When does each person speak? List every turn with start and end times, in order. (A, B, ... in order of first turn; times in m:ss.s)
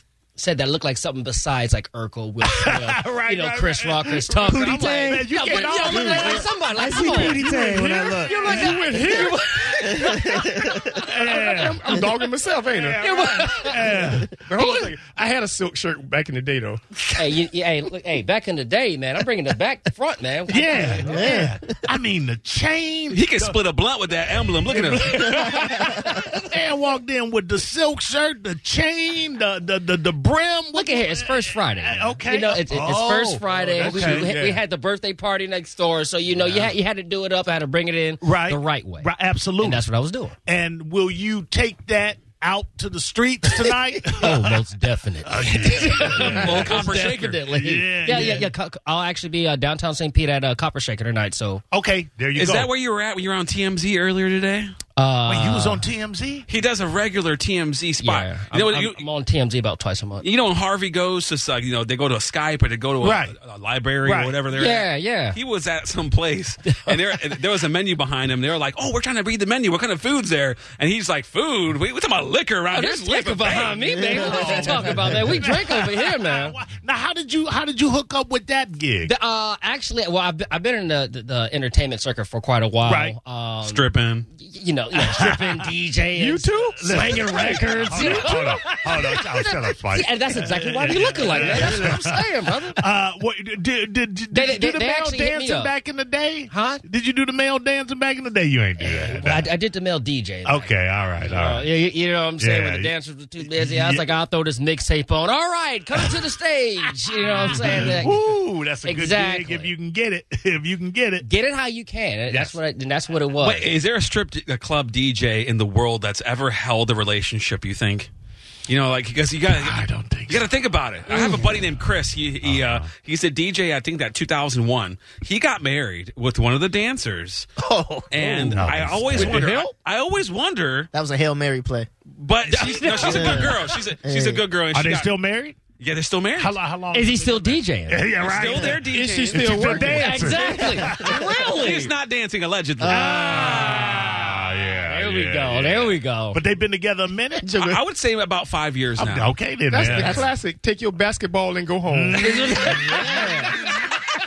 0:00.4-0:07.4 A
0:02.5-0:06.5 B
0:04.4-0:05.2 C
0:05.9-0:08.5 C
0:07.3-0:13.0 D
0:08.2-0:11.0 A
0:11.1-0:11.9 B
0:12.7-0:14.3 B
0:13.0-0:14.0 A
0:14.3-0:16.8 D
0:14.6-0:14.9 A
0:17.2-0:21.3 A
0:20.5-0:23.6 B
0:21.1-0:21.5 C
0:23.1-0:25.7 E
0:24.7-0:34.3 B
0:30.7-0:40.4 A
0:33.5-0:34.6 D
0:38.2-0:39.8 B
0:40.5-0:44.6 B
0:44.2-0:51.6 A
0:45.2-0:48.5 B
0:46.1-0:47.4 E
0:51.7-0:52.7 B
0:52.3-0:54.7 E
0:55.0-0:55.8 A
0:55.2-0:56.5 B
0:56.5-0:59.0 E
0:58.0-1:00.3 A
1:00.2-1:13.9 E
1:03.0-1:03.4 B
1:04.0-1:04.4 B
1:04.5-1:05.4 A
1:06.7-1:07.0 A
1:12.7-1:16.6 A
1:14.1-1:19.1 B
1:19.0-1:23.8 A
1:22.8-1:23.2 B
1:23.6-1:24.3 E
1:24.3-1:32.8 A
1:25.0-1:25.4 B
1:26.2-1:28.4 D
1:26.7-1:32.2 B
1:32.8-1:39.5 B
1:34.3-1:35.8 A
1:36.5-1:36.8 A
1:38.8-1:40.7 A
1:40.4-1:41.7 B
1:41.2-1:48.3 A
1:42.4-1:44.1 B
1:47.3-1:51.2 B
1:48.8-1:49.7 A
1:51.2-1:53.7 A
1:52.3-1:52.6 B
1:53.4-1:58.1 E
1:58.7-2:07.5 E
1:59.5-2:00.4 B
2:01.3-2:01.8 B
2:02.4-2:02.9 B
2:07.6-2:08.2 C
2:08.1-2:10.9 E
2:08.3-2:09.7 D
2:08.5-2:09.5 B
2:10.9-2:11.9 C
2:12.2-2:15.1 E
2:12.5-2:13.6 A
2:13.0-2:14.4 C
2:14.7-2:15.6 B
2:15.8-2:16.6 E
2:16.4-2:21.6 B
2:16.9-2:18.1 A
2:18.2-2:19.8 E
2:18.8-2:20.5 D
2:19.7-2:21.9 A
2:21.4-2:24.2 E
2:22.8-2:23.2 C
2:22.9-2:27.5 B
2:23.4-2:26.4 A
2:27.5-2:27.8 C
2:27.5-2:29.3 E
2:29.0-2:30.3 B
2:29.7-2:32.2 D
2:29.8-2:30.1 A
2:29.9-2:30.3 E
2:31.9-2:33.2 B
2:32.2-2:33.6 A